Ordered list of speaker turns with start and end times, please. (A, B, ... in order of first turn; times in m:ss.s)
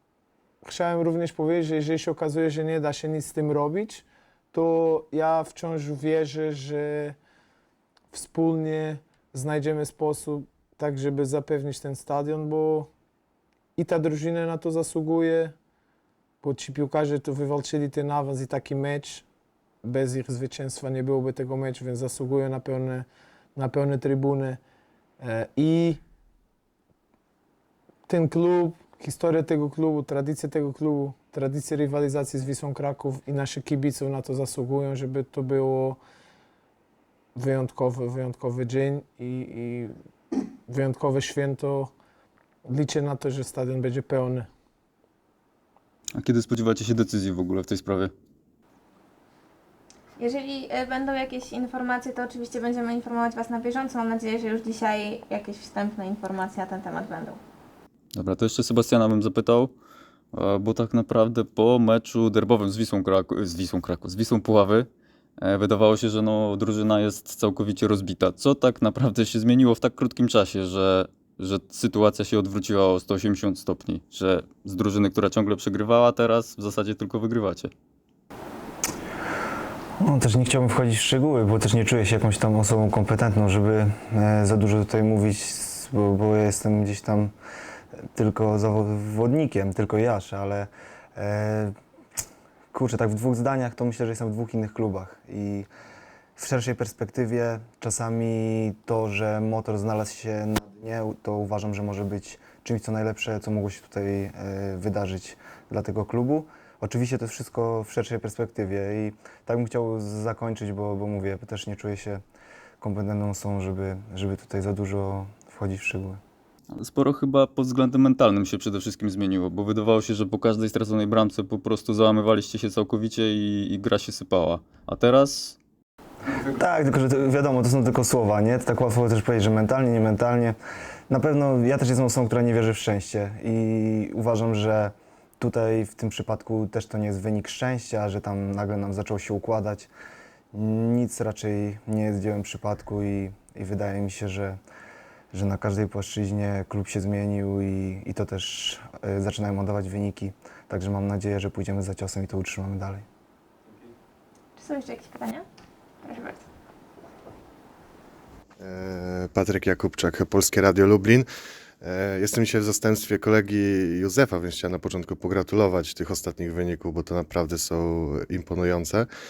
0:00.6-0:07.2 A
0:08.1-0:12.9 A
0:13.8-0:15.5 A
0:16.4-0:19.2 A
0:19.8-0:24.6 A
0:25.2-0:26.0 A
0:28.1-0:36.0 A
0:37.3-0:39.9 A
0:40.7-0:41.9 A
0:42.6-0:44.5 A
0:46.2-0:48.1 B
0:50.2-0:57.4 C
0:58.2-0:59.7 B
1:00.3-1:17.7 B
1:20.0-1:27.3 D
1:28.1-1:31.8 D
1:32.7-1:35.7 D
1:36.4-1:52.2 D
1:52.8-1:56.2 D
1:56.7-2:05.6 B
2:06.4-2:10.6 D
2:11.1-2:19.9 D
2:20.5-2:24.6 D
2:25.3-2:33.0 D
2:34.6-2:35.4 C
2:36.0-2:36.4 C
2:38.6-2:41.3 E
2:41.8-2:49.1 E